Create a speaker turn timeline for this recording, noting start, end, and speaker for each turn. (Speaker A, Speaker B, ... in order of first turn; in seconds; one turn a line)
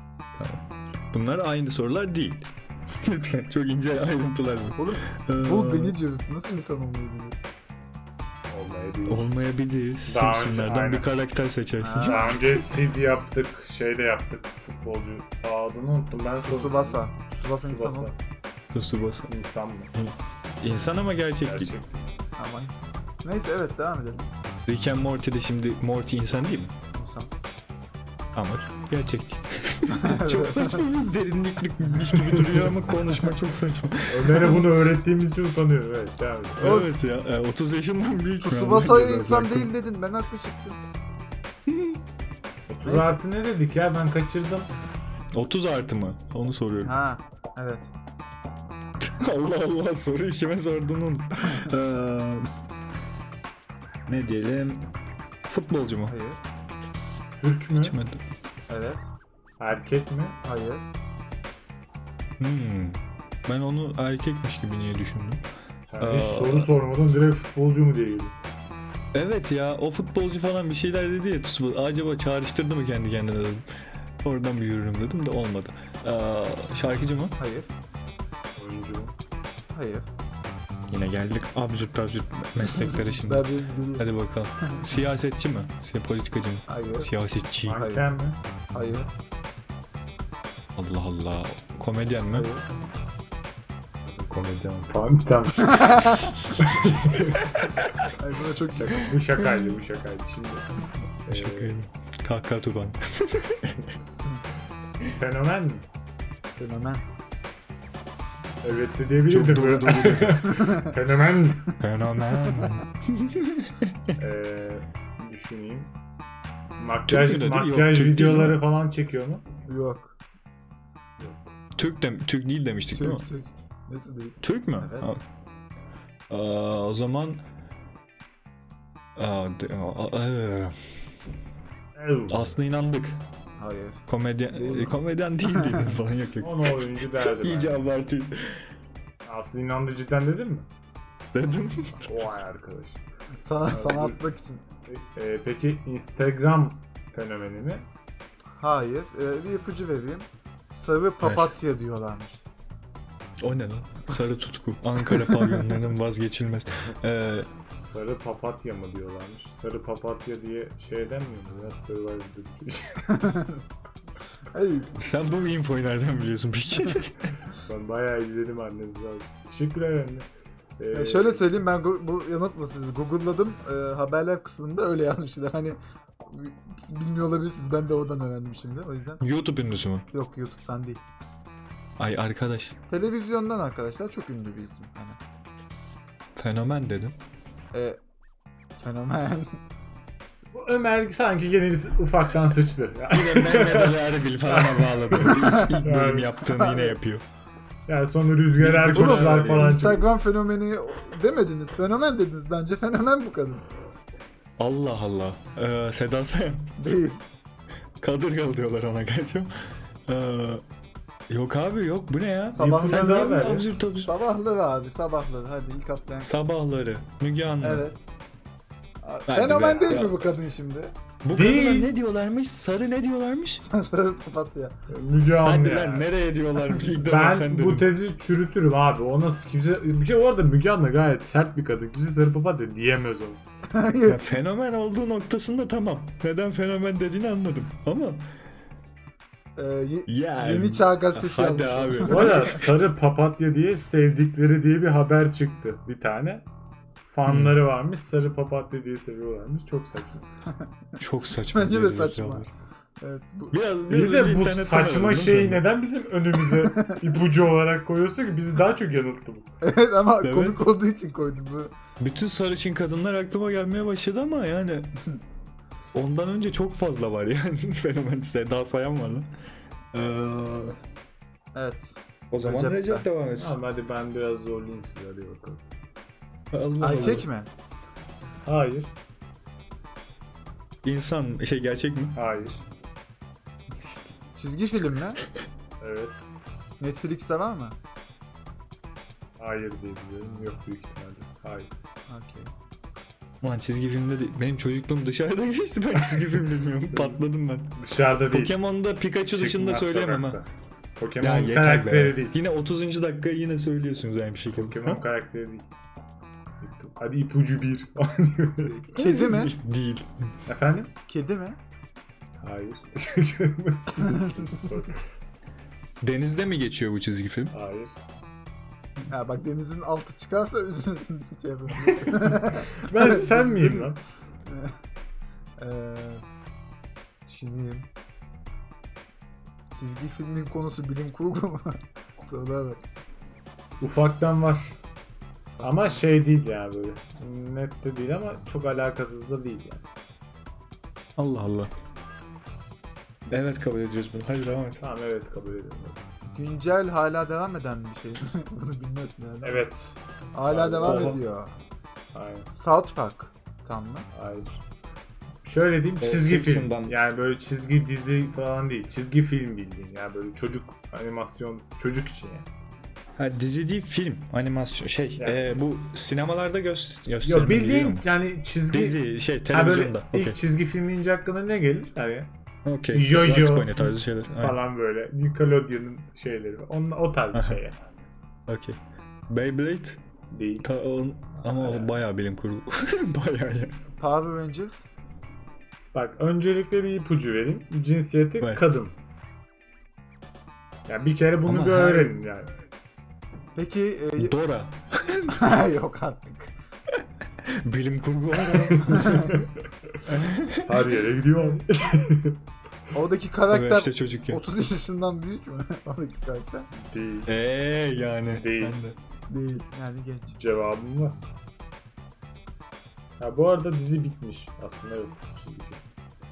Speaker A: 0.4-6.0
Speaker B: 4.8-7.4
Speaker C: 8.5-9.3
Speaker A: 9.1-12.6
Speaker C: 10.1-11.1
Speaker B: 11.8-12.4
Speaker C: 12.0-17.1
Speaker B: 16.4-18.1
Speaker C: 17.6-18.1
Speaker A: 18.7-19.3
Speaker C: 19.3-19.9
Speaker A: 19.9-21.7
Speaker C: 21.4-22.0
Speaker B: 22.4-24.3
Speaker A: 24.7-26.8
Speaker B: 26.9-27.3
Speaker A: 28.3-34.7
Speaker B: 29.9-30.9
Speaker B: 31.9-32.9
Speaker C: 34.1-36.7
Speaker A: 36.6-39.7
Speaker B: 36.6-37.0
Speaker B: 38.4-40.8
Speaker A: 41.7-42.0
Speaker C: 42.7-44.7
Speaker B: 42.8-43.2
Speaker A: 45.3-46.9
Speaker B: 46.8-47.9
Speaker A: 49.0-52.5
Speaker A: 54.1-54.9
Speaker A: 55.4-56.1
Speaker B: 56.1-56.4
Speaker C: 57.4-58.0
Speaker A: 57.8-58.2
Speaker B: 58.7-59.1
Speaker C: 59.6-60.4
Speaker B: 60.4-60.9
Speaker A: 62.4-65.4
Speaker C: 65.9-68.3
Speaker A: 66.0-66.7
Speaker A: 69.1-73.6
Speaker A: 74.2-77.4
Speaker B: 77.4-77.7
Speaker C: 78.5-79.2
Speaker B: 79.7-80.1
Speaker A: 80.9-87.8
Speaker B: 82.8-84.1
Speaker B: 86.7-87.1
Speaker C: 87.6-88.4
Speaker B: 87.7-88.0
Speaker B: 88.7-89.1
Speaker A: 90.8-92.5
Speaker B: 92.3-92.7
Speaker C: 94.0-97.5
Speaker B: 95.6-96.3
Speaker A: 96.6-97.3
Speaker B: 98.2-99.1
Speaker C: 98.7-101.7
Speaker A: 99.4-99.7
Speaker A: 101.3-103.8
Speaker C: 105.0-105.8
Speaker B: 106.6-107.0
Speaker C: 108.6-111.7
Speaker A: 109.3-110.6
Speaker A: 111.8-114.2
Speaker C: 114.2-115.9
Speaker C: 116.8-119.4
Speaker A: 117.1-118.6
Speaker B: 119.7-120.1
Speaker C: 121.2-121.4
Speaker A: 121.8-123.2
Speaker B: 122.9-125.1
Speaker A: 124.4-125.2
Speaker A: 126.3-127.4
Speaker A: 129.2-130.8
Speaker C: 131.9-132.6
Speaker A: 132.3-133.2
Speaker B: 133.6-135.9
Speaker A: 134.1-138.6
Speaker C: 136.4-137.9
Speaker C: 139.2-140.7
Speaker A: 141.3-142.1
Speaker C: 142.0-143.0
Speaker B: 143.4-144.6
Speaker C: 143.7-144.2
Speaker C: 144.8-147.9
Speaker B: 148.6-152.4
Speaker A: 151.2-151.5
Speaker A: 153.4-157.5
Speaker B: 155.2-155.6
Speaker C: 157.7-163.3
Speaker B: 163.1-163.6
Speaker B: 164.5-165.0
Speaker A: 164.9-167.3
Speaker C: 167.5-170.3
Speaker C: 170.8-171.5
Speaker B: 170.9-179.2
Speaker A: 179.2-180.1
Speaker B: 180.1-181.0
Speaker A: 182.0-182.8
Speaker B: 182.9-185.2
Speaker A: 186.4-187.2
Speaker B: 187.7-188.0
Speaker B: 188.8-189.6
Speaker C: 190.5-196.6
Speaker A: 193.1-197.2
Speaker B: 196.5-196.9
Speaker C: 197.9-200.1
Speaker A: 198.6-199.9
Speaker B: 198.9-203.6
Speaker A: 204.6-206.9
Speaker B: 206.8-207.2
Speaker A: 208.0-209.5
Speaker A: 210.1-210.6
Speaker A: 211.3-214.1
Speaker B: 212.5-213.5
Speaker C: 212.6-213.7
Speaker B: 214.0-216.3
Speaker A: 216.2-217.8
Speaker B: 217.6-218.0
Speaker B: 219.0-220.9
Speaker A: 219.3-220.2
Speaker A: 221.2-223.6
Speaker C: 221.3-221.9
Speaker B: 223.6-224.8
Speaker C: 224.9-226.1
Speaker A: 225.4-227.9
Speaker C: 226.9-233.4
Speaker B: 233.7-234.2
Speaker A: 234.1-238.2
Speaker B: 239.6-242.7
Speaker A: 240.1-242.8
Speaker C: 242.1-246.4
Speaker C: 247.1-250.2
Speaker A: 247.3-247.6
Speaker A: 251.0-252.5
Speaker B: 251.5-253.5
Speaker A: 253.5-255.6
Speaker C: 253.9-259.5
Speaker B: 259.6-261.7
Speaker A: 260.2-260.7
Speaker A: 262.0-265.1
Speaker A: 265.9-269.3
Speaker A: 269.9-270.8
Speaker B: 271.5-273.1
Speaker A: 272.3-273.6
Speaker C: 273.4-275.6
Speaker A: 276.5-277.3
Speaker B: 276.8-277.5
Speaker C: 278.4-278.9
Speaker A: 280.8-282.2
Speaker C: 282.1-282.6
Speaker A: 283.8-284.1
Speaker B: 284.3-285.2
Speaker C: 285.8-286.1
Speaker B: 286.8-287.8
Speaker C: 289.4-291.7
Speaker B: 292.1-292.5
Speaker A: 293.4-297.8
Speaker C: 296.0-297.2
Speaker C: 297.8-298.5
Speaker A: 298.3-300.4
Speaker C: 299.2-300.4
Speaker C: 301.0-302.3
Speaker A: 301.2-305.0
Speaker C: 304.5-305.7
Speaker C: 306.6-308.7
Speaker B: 308.6-309.5
Speaker A: 308.9-310.3
Speaker C: 310.4-310.9
Speaker B: 311.1-311.6
Speaker C: 312.4-315.0
Speaker A: 316.0-317.5
Speaker C: 317.5-318.0
Speaker B: 319.1-323.9
Speaker C: 321.8-324.0
Speaker B: 324.5-324.7
Speaker B: 325.6-326.2
Speaker B: 327.3-327.9
Speaker B: 329.8-332.8
Speaker C: 333.8-334.7
Speaker B: 335.6-336.0
Speaker C: 335.6-339.8
Speaker A: 341.2-341.7
Speaker A: 343.3-344.8
Speaker C: 344.8-346.0
Speaker B: 346.3-349.6
Speaker C: 349.4-351.2
Speaker B: 350.3-351.6
Speaker C: 352.1-352.5
Speaker B: 352.5-354.1
Speaker C: 354.1-354.6
Speaker C: 355.4-362.5
Speaker A: 356.0-356.9
Speaker A: 363.2-368.1
Speaker C: 365.2-365.4
Speaker C: 367.2-372.3
Speaker A: 368.7-370.4
Speaker A: 372.6-374.6
Speaker C: 372.9-377.8
Speaker A: 377.3-377.6
Speaker A: 378.5-380.0
Speaker C: 380.3-380.7
Speaker A: 380.6-383.8
Speaker C: 381.4-381.9
Speaker B: 384.0-384.9
Speaker C: 385.9-388.9
Speaker C: 390.9-392.5
Speaker A: 391.4-392.1
Speaker B: 393.5-394.4
Speaker A: 394.2-395.3
Speaker B: 395.3-396.5
Speaker A: 397.4-399.4
Speaker C: 398.5-399.5
Speaker B: 398.9-399.3
Speaker A: 400.1-400.9
Speaker C: 400.6-402.4
Speaker B: 402.9-406.7
Speaker A: 403.5-404.4
Speaker C: 406.7-407.3
Speaker A: 407.3-408.9
Speaker C: 408.3-408.8
Speaker B: 409.3-410.4
Speaker C: 410.3-411.2
Speaker C: 413.2-415.8